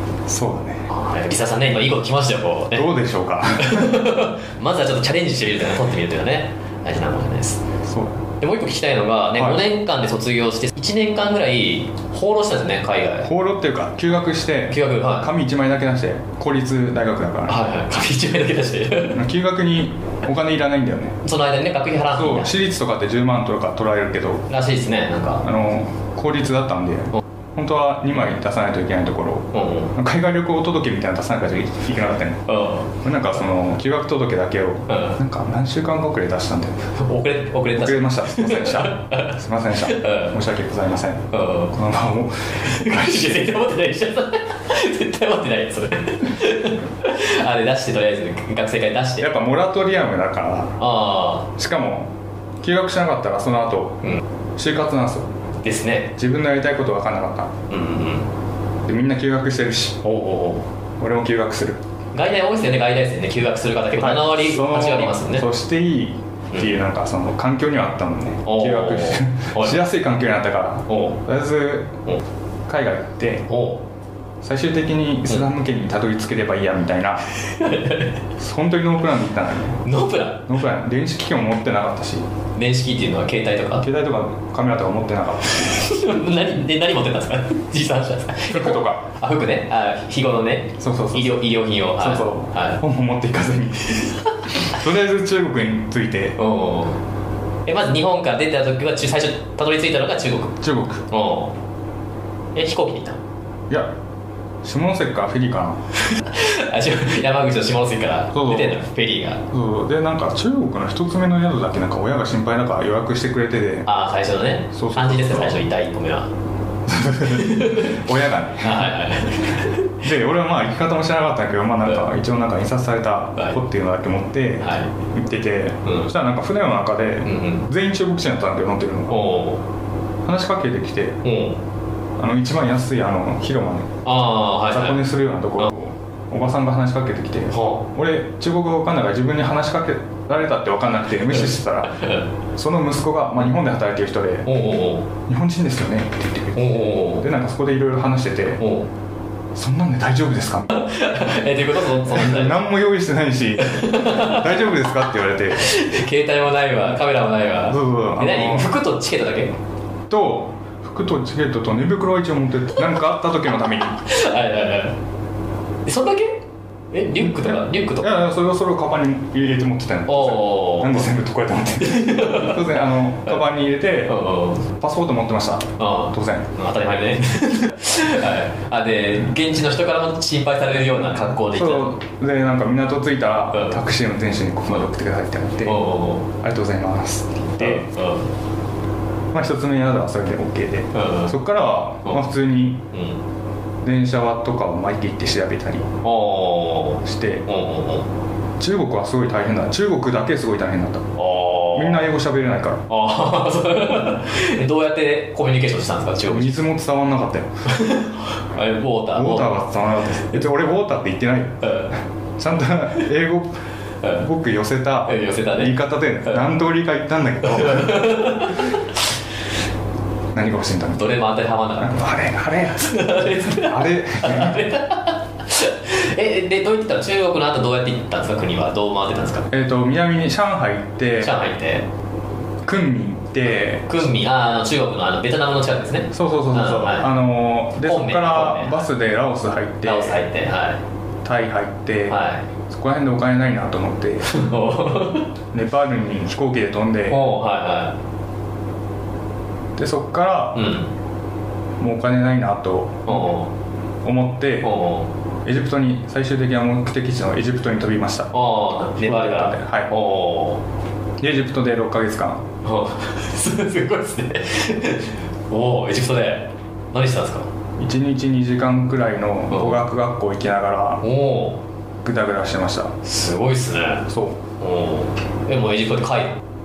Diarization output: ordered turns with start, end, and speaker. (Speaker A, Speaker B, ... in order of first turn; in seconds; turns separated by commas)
Speaker A: 0.3-0.9, Speaker B: 0.9-2.9, Speaker A: 2.7-4.1, Speaker B: 3.6-7.6, Speaker A: 7.8-8.2, Speaker B: 8.4-13.3, Speaker A: 9.4-9.6, Speaker A: 13.2-17.6, Speaker B: 14.7-15.3, Speaker B: 17.5-19.2, Speaker A: 19.1-21.2, Speaker B: 21.2-22.5, Speaker A: 22.1-24.5, Speaker B: 24.5-25.5, Speaker A: 25.4-36.9, Speaker B: 29.5-29.9, Speaker B: 32.5-32.9, Speaker B: 34.9-35.2, Speaker B: 37.0-40.4, Speaker A: 37.8-43.5, Speaker B: 41.3-41.8, Speaker B: 42.6-49.3, Speaker A: 49.2-50.8, Speaker B: 50.8-51.5, Speaker A: 51.6-54.0, Speaker A: 54.6-55.3, Speaker B: 55.6-56.1, Speaker A: 56.2-57.6, Speaker B: 57.7-58.3, Speaker A: 58.9-60.0, Speaker B: 60.0-60.7, Speaker A: 61.0-61.8, Speaker B: 62.1-65.5, Speaker A: 64.0-72.0, Speaker B: 68.5-69.8, Speaker B: 70.9-71.2, Speaker A: 72.7-73.5, Speaker B: 73.5-73.8, Speaker A: 74.4-77.3, Speaker B: 77.4-78.2, Speaker A: 78.4-79.8, Speaker B: 79.8-80.5, Speaker A: 80.5-82.3, Speaker B: 82.6-83.9, Speaker A: 83.8-85.8, Speaker B: 85.6-92.8, Speaker A: 88.5-89.1, Speaker A: 90.8-91.4, Speaker A: 92.0-93.9, Speaker A: 94.6-96.4, Speaker B: 96.4-97.0, Speaker B: 97.7-101.5, Speaker A: 100.6-101.1, Speaker B: 102.5-103.2, Speaker A: 104.6-105.8, Speaker B: 106.1-109.4, Speaker A: 108.3-108.8, Speaker A: 109.5-113.9, Speaker B: 113.9-116.3, Speaker A: 114.7-115.7, Speaker A: 116.9-119.0, Speaker B: 117.3-118.1, Speaker B: 118.6-119.9, Speaker A: 119.5-129.2, Speaker B: 124.6-124.9, Speaker B: 125.8-126.1, Speaker B: 127.2-127.7, Speaker B: 129.1-129.6, Speaker A: 130.2-131.2, Speaker B: 131.2-131.6, Speaker A: 132.2-134.0, Speaker B: 134.1-135.0, Speaker A: 134.7-142.0, Speaker B: 137.5-137.8, Speaker B: 141.9-142.3, Speaker A: 142.6-144.6, Speaker B: 144.5-145.1, Speaker A: 145.3-148.6, Speaker B: 146.6-147.3, Speaker B: 148.6-148.9, Speaker A: 149.5-150.7, Speaker B: 150.7-152.6, Speaker A: 152.0-155.7, Speaker B: 153.6-154.6, Speaker B: 155.5-159.6, Speaker A: 157.7-158.8, Speaker A: 160.1-164.0, Speaker B: 163.9-165.0, Speaker B: 165.9-168.1, Speaker A: 167.2-176.6, Speaker B: 170.1-171.1, Speaker B: 171.8-172.7, Speaker B: 174.1-174.7, Speaker B: 175.8-182.0, Speaker A: 181.2-187.9, Speaker B: 185.6-186.3, Speaker B: 187.6-188.3, Speaker A: 189.3-192.9, Speaker B: 190.9-191.4, Speaker B: 192.9-193.2, Speaker A: 193.8-195.9, Speaker B: 196.0-198.1, Speaker A: 197.0-197.4, Speaker A: 198.6-201.1, Speaker B: 201.2-202.1, Speaker A: 201.7-202.9, Speaker B: 202.9-206.5, Speaker A: 206.3-207.7, Speaker B: 207.7-209.6, Speaker A: 209.1-211.7, Speaker B: 211.6-212.0, Speaker A: 212.4-213.6, Speaker A: 214.1-218.6, Speaker B: 215.1-215.8, Speaker B: 217.5-218.8, Speaker A: 220.3-221.1, Speaker B: 221.0-222.1, Speaker A: 221.8-224.6, Speaker B: 222.8-229.5, Speaker A: 229.5-231.4, Speaker B: 231.2-231.9, Speaker A: 232.6-234.0, Speaker B: 233.9-237.1, Speaker A: 236.1-240.2, Speaker B: 237.8-238.8, Speaker B: 239.8-240.8, Speaker A: 241.2-244.3, Speaker B: 242.1-242.5, Speaker B: 244.3-245.3, Speaker A: 245.5-247.2, Speaker B: 247.1-248.0, Speaker A: 249.8-250.7, Speaker B: 250.6-250.9, Speaker A: 251.8-253.3, Speaker B: 253.1-253.5, Speaker A: 254.0-254.8, Speaker B: 254.6-255.1, Speaker A: 255.4-258.3, Speaker B: 258.3-260.6, Speaker A: 259.0-259.9, Speaker A: 261.2-262.5, Speaker B: 262.6-267.5, Speaker A: 267.8-271.0, Speaker B: 269.5-269.8, Speaker B: 271.0-271.6, Speaker A: 272.0-273.0, Speaker B: 273.0-274.1, Speaker A: 274.1-274.4, Speaker B: 274.6-276.4